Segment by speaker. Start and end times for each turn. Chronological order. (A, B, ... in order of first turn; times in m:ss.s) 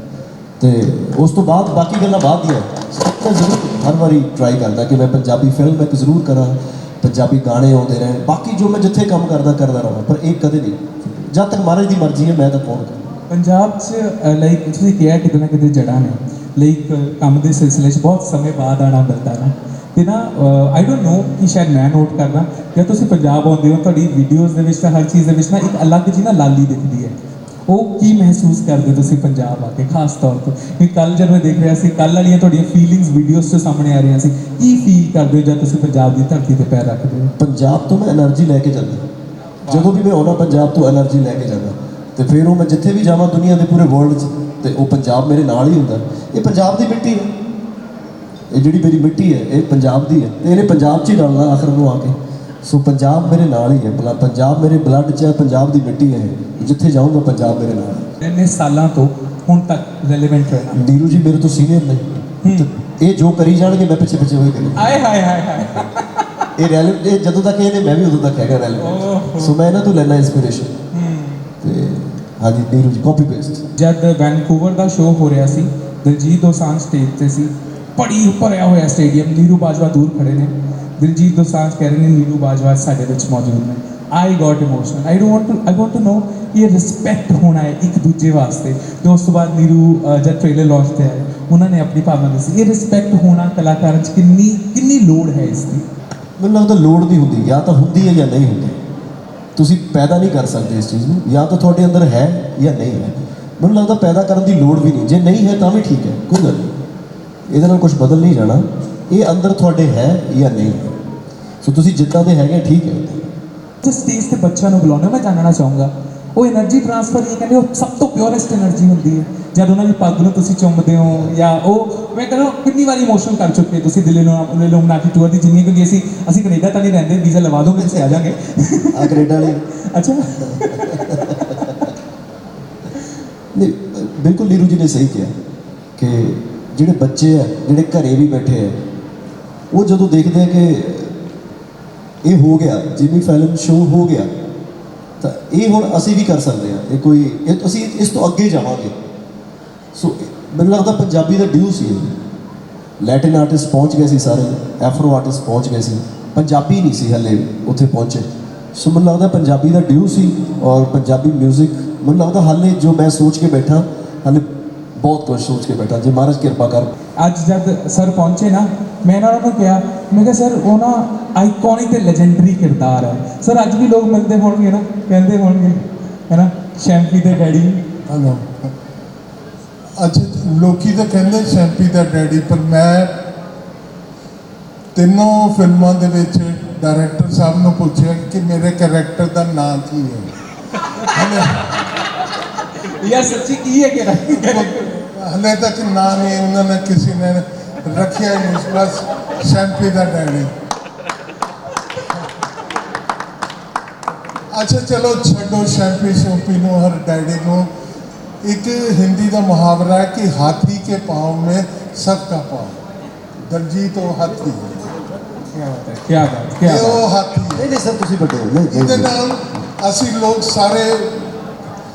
0:00.6-0:13.1 A
0:13.3-0:37.3 B
0:37.4-0:39.1 A
0:39.6-0:39.9 B
0:39.7-0:47.3 A
0:48.5-0:58.1 A
0:58.2-1:00.8 B
1:00.7-1:05.0 A
1:02.4-1:02.7 B
1:04.8-1:06.5 B
1:06.6-1:10.8 A
1:08.8-1:09.6 B
1:10.9-1:11.5 B
1:11.6-1:13.6 A
1:13.8-1:35.8 B
1:36.4-1:38.8 A
1:39.6-1:46.7 A
1:47.5-1:50.9 A
1:51.6-1:53.2 A
1:53.8-2:11.6 B
2:01.1-2:01.3 A
2:07.7-2:08.2 A
2:08.9-2:09.6 A
2:10.3-2:11.9 A
2:13.5-2:15.3 A
2:16.0-2:18.8 A
2:19.7-2:21.2 A
2:22.2-2:24.3 A
2:25.2-2:28.9 A
2:29.9-2:32.2 A
2:33.0-2:44.4 A
2:45.0-2:46.9 A
2:47.2-2:57.8 B
2:58.1-2:58.7 C
3:00.0-3:03.2 C
3:04.9-3:10.3 C
3:11.0-3:11.8 C
3:12.8-3:15.0 B
3:14.3-3:20.5 C
3:24.5-3:27.7 C
3:28.4-3:32.8 C
3:33.4-3:34.8 C
3:35.5-3:37.0 B
3:36.6-3:37.7 C
3:37.5-3:39.1 A
3:38.7-3:41.3 C